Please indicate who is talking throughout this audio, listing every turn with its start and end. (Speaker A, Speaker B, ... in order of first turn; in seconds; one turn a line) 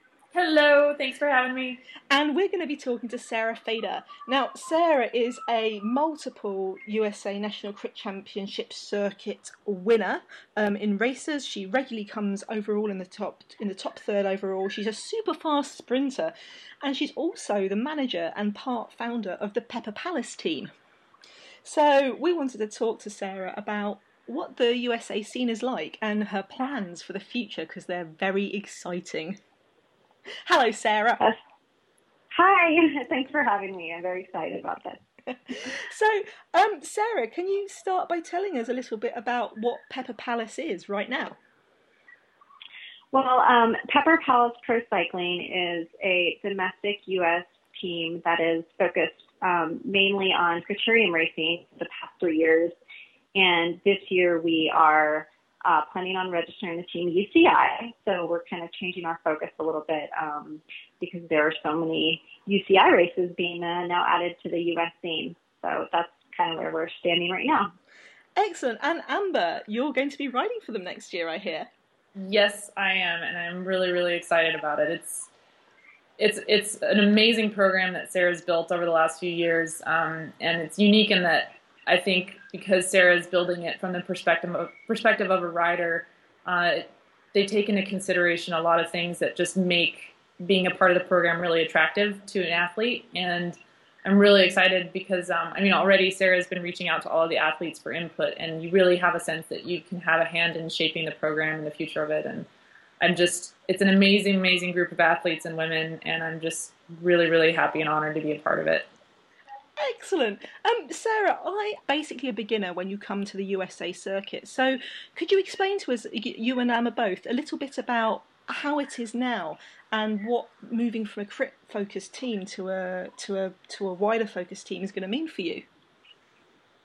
Speaker A: 0.3-1.8
Speaker B: 2.1-20.7
Speaker B: 21.6-29.4
Speaker B: 30.5-31.2
Speaker C: 32.3-35.0
Speaker B: 35.5-41.4
Speaker C: 43.1-52.7
Speaker C: 53.3-67.7
Speaker B: 68.4-71.7
Speaker A: 72.2-75.3
Speaker A: 76.2-102.5
Speaker A: 103.0-108.9
Speaker B: 109.8-125.7